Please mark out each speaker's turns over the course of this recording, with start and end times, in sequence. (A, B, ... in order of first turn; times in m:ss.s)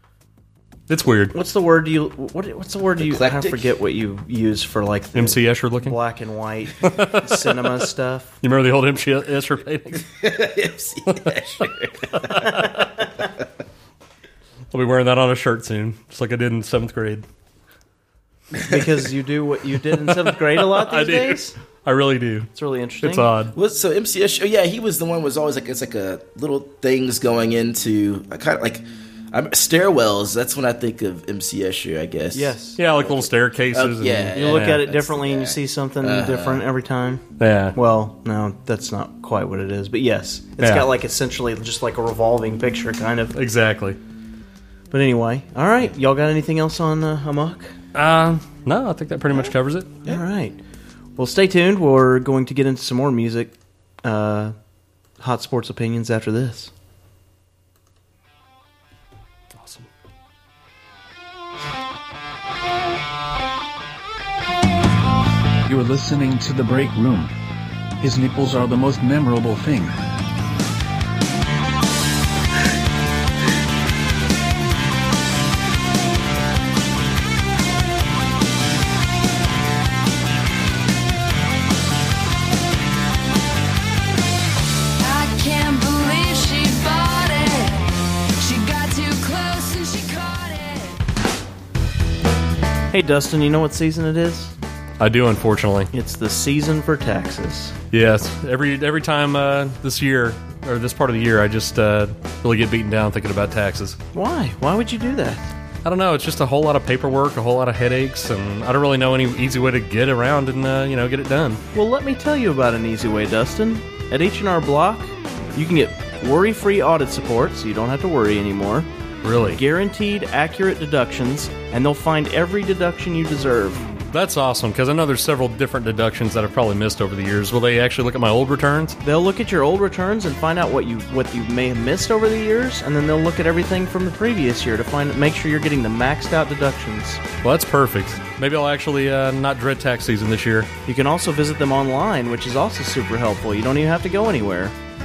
0:00.9-0:01.3 A
0:01.3-0:08.4 B
0:03.0-0:03.6 C
0:05.1-0:06.0 A
0:06.8-0:07.5 A
0:08.4-0:10.0 A
0:10.1-0:12.3 C
0:11.1-0:11.4 A
0:12.2-0:12.8 A
0:14.7-0:17.2 A
0:18.6-0:21.5 B
0:19.9-0:22.5 A
0:22.5-0:23.3 B
0:23.0-0:23.5 A
0:23.5-0:36.6 C
0:32.3-0:32.8 B
0:32.8-0:34.8 A
0:34.3-0:37.2 B
0:37.4-0:37.8 A
0:37.7-0:43.4 B
0:40.6-0:40.9 A
0:43.4-0:44.0 A
0:44.9-0:47.7 B
0:47.9-0:49.9 A
0:50.0-0:50.6 B
0:51.2-0:54.5 B
0:55.2-0:56.7 B
0:59.6-0:59.9 A
1:05.6-1:07.3 D
1:08.0-1:10.0 D
1:25.0-1:31.0 E
1:32.9-1:34.5 B
1:35.0-1:35.9 A
1:35.9-1:37.7 B
1:37.9-1:44.0 A
1:44.1-1:45.5 B
1:45.8-1:51.6 A
1:51.7-1:58.9 B
1:59.2-1:59.6 A
1:59.5-2:03.8 B
2:04.1-2:09.0 A
2:09.0-2:17.2 B
2:17.4-2:20.7 A
2:20.9-2:24.7 B